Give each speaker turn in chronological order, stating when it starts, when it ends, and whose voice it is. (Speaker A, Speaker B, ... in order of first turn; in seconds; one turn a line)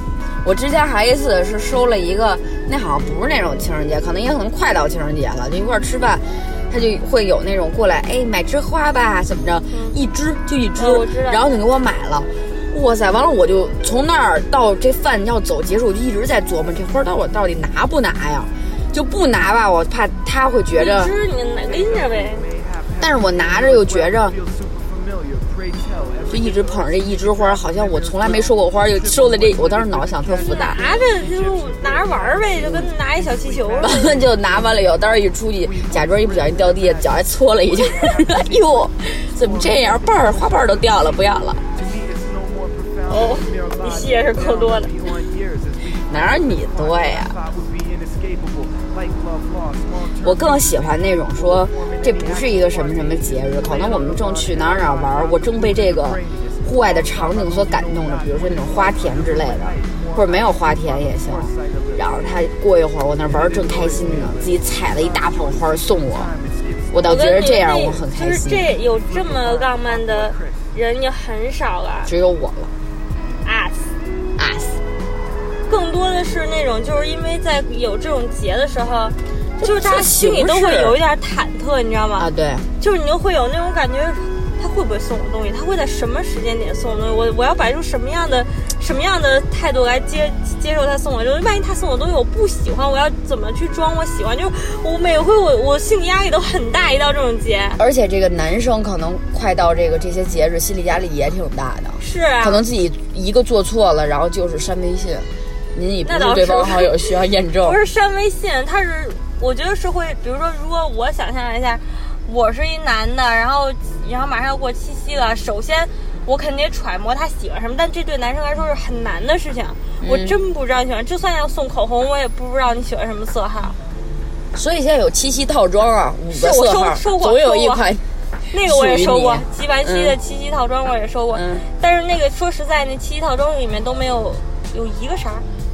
Speaker A: 0.4-21.1
Speaker B: 9.7-10.0
Speaker B: 10.8-11.4
Speaker B: 20.8-22.4
Speaker C: 21.6-62.5
Speaker A: 23.0-24.4
Speaker A: 26.3-30.8
Speaker B: 30.5-34.2
Speaker A: 33.8-41.6
Speaker B: 43.1-44.9
Speaker A: 46.1-47.4
Speaker A: 50.2-66.3
Speaker C: 63.2-67.4
Speaker A: 66.9-68.6
Speaker B: 67.0-72.1
Speaker C: 68.8-70.7
Speaker A: 72.1-72.7
Speaker B: 73.4-73.9
Speaker A: 74.4-74.8
Speaker B: 75.7-82.3
Speaker A: 79.6-81.0
Speaker A: 82.2-82.7
Speaker B: 82.8-97.8
Speaker A: 97.8-107.8
Speaker B: 102.0-102.6
Speaker B: 106.0-123.8
Speaker A: 120.0-120.4
Speaker A: 124.5-130.2
Speaker B: 126.3-127.9
Speaker B: 128.5-135.5
Speaker A: 131.3-131.7